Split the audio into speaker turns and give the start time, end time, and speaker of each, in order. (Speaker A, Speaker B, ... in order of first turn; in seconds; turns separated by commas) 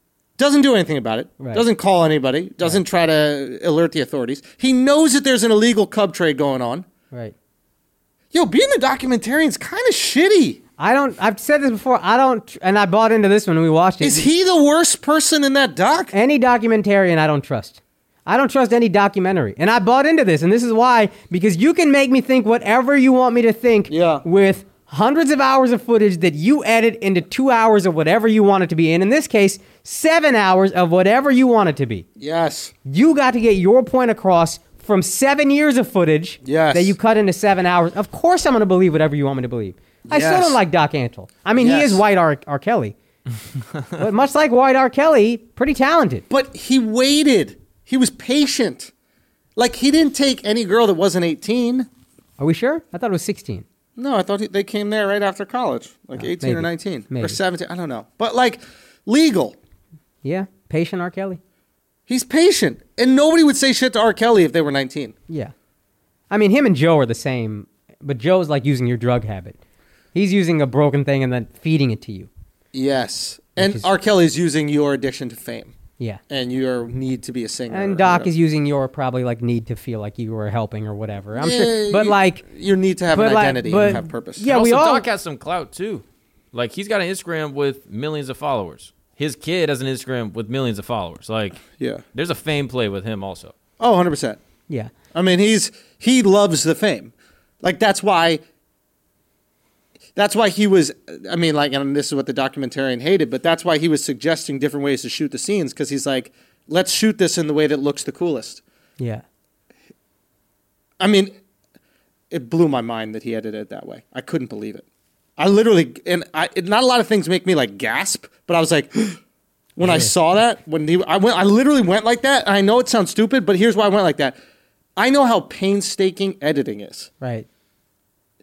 Speaker A: 0.4-6.8, Speaker B: 1.4-1.6, Speaker A: 8.3-10.6, Speaker B: 10.8-14.3, Speaker A: 14.0-16.1, Speaker B: 16.1-32.0, Speaker A: 23.9-24.2, Speaker A: 32.2-32.7, Speaker B: 32.8-42.9, Speaker A: 36.4-36.9, Speaker A: 40.1-40.6, Speaker A: 41.6-42.0, Speaker B: 44.0-46.2, Speaker A: 46.3-48.9, Speaker A: 49.5-51.9, Speaker B: 52.4-53.6, Speaker A: 54.0-59.5, Speaker B: 56.2-57.4, Speaker B: 60.2-61.4, Speaker A: 62.1-65.1, Speaker B: 66.3-69.6, Speaker B: 70.1-72.3, Speaker A: 72.7-75.7, Speaker B: 73.6-73.9, Speaker A: 76.3-78.3, Speaker B: 77.7-82.4, Speaker A: 81.4-84.5, Speaker B: 83.1-85.0, Speaker C: 84.5-93.5, Speaker A: 91.7-92.0, Speaker A: 93.8-94.4, Speaker A: 95.1-98.4, Speaker A: 100.1-108.6, Speaker B: 109.0-109.2, Speaker A: 111.0-111.3, Speaker A: 112.3-114.8, Speaker A: 115.4-119.2, Speaker A: 119.8-124.4, Speaker B: 119.8-120.1, Speaker A: 125.0-127.1, Speaker B: 127.2-127.5